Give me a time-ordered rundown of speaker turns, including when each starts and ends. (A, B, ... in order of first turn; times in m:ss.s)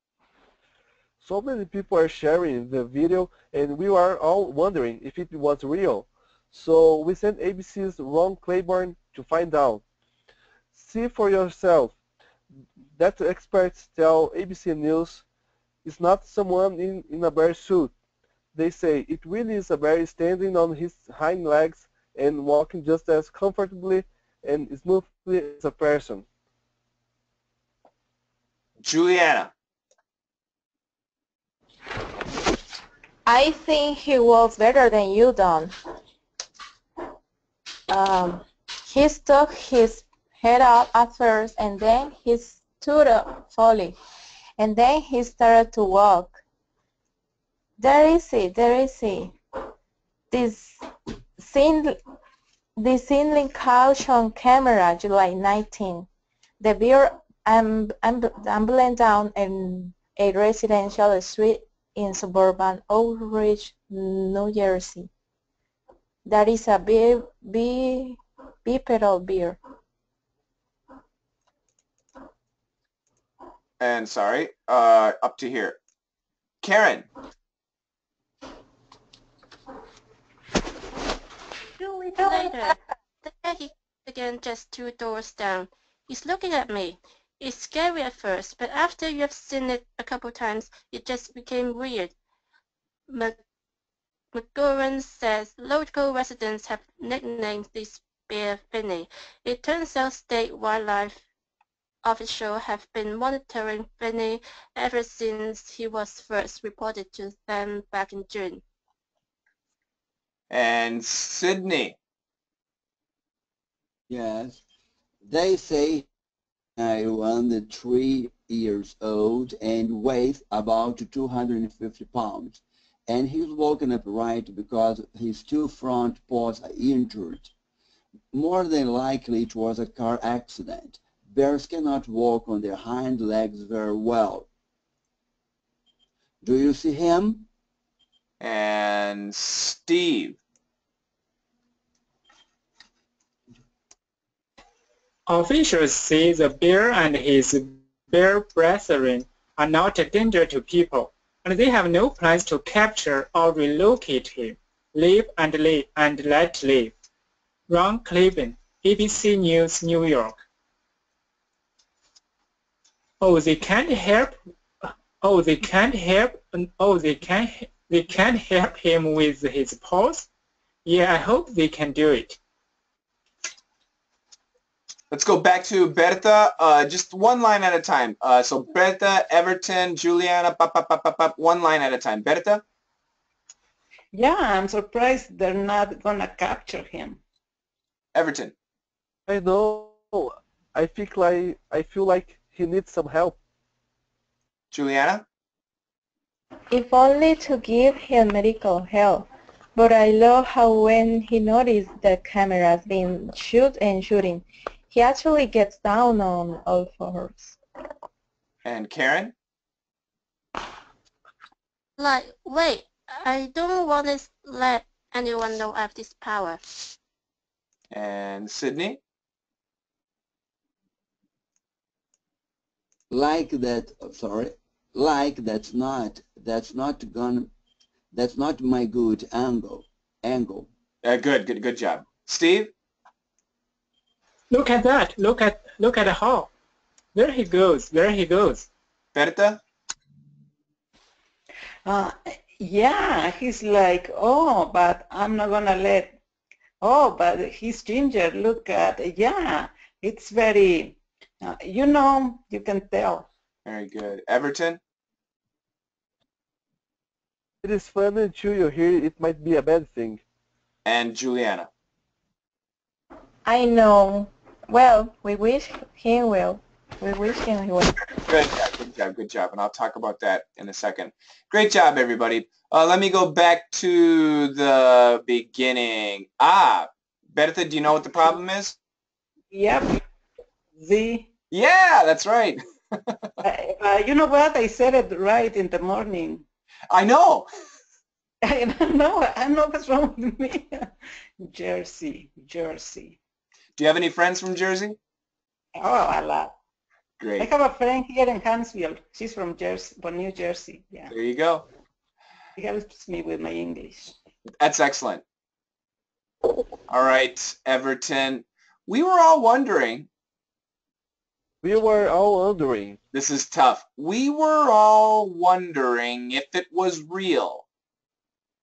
0:01.2-0:09.8 A
0:10.7-0:12.0 A
0:13.0-0:15.2 A
0:15.8-0:17.9 A
0:18.5-0:26.2 A
0:28.8-0:29.5 B
0:33.2-0:35.7 C
0:37.9-0:44.0 C
0:44.6-0:46.4 C
0:47.8-0:49.3 C
0:50.3-0:50.8 C
0:51.4-0:52.0 C
0:52.8-0:56.1 C
0:56.6-1:05.1 C
1:06.2-1:09.6 C
1:13.8-1:15.8 B
1:16.6-1:17.1 B
1:21.8-1:22.8 D
1:22.2-1:32.1 E
1:33.1-1:33.4 E
1:34.3-1:41.2 E
1:42.0-1:48.6 E
1:50.5-1:52.0 B
1:54.1-1:54.6 F
1:55.2-1:56.1 F
1:56.8-2:07.5 F
2:08.3-2:14.5 F
2:16.4-2:17.5 F
2:18.4-2:20.4 B
2:25.3-2:36.9 G
2:37.7-2:40.4 G
2:43.2-2:44.4 G
2:45.2-2:50.3 G
2:50.8-2:52.4 G
2:55.1-3:02.6 B
3:04.1-3:07.2 D
3:08.1-3:08.5 B
3:09.3-3:13.4 A
3:14.7-3:15.2 B
3:16.7-3:27.6 C
3:28.6-3:29.3 B
3:32.0-3:36.6 E
3:37.9-3:39.0 B
3:43.1-3:47.5 F
3:48.1-3:50.7 F
3:51.0-3:52.7 B
3:54.5-3:56.5 G
3:57.1-3:58.7 G
3:59.1-3:59.6 B
4:01.8-4:06.2 D
4:06.8-4:13.3 D
4:13.6-4:14.8 B
4:17.6-4:20.2 A
4:20.8-4:21.7 B
4:23.4-4:28.0 C
4:28.3-4:38.8 B
4:39.5-4:40.0 D
4:40.8-4:41.3 D
4:41.5-4:43.3 B
4:43.4-4:46.4 D
4:46.9-4:47.5 B
4:48.4-4:53.2 D
4:53.8-4:55.0 B
4:55.8-4:56.5 D
4:57.2-4:57.5 B
4:57.4-5:01.1 D
5:01.1-5:01.6 B
5:02.6-5:04.2 D
5:04.6-5:05.2 B
5:06.9-5:10.1 B
5:11.6-5:13.0 A
5:13.1-5:17.6 B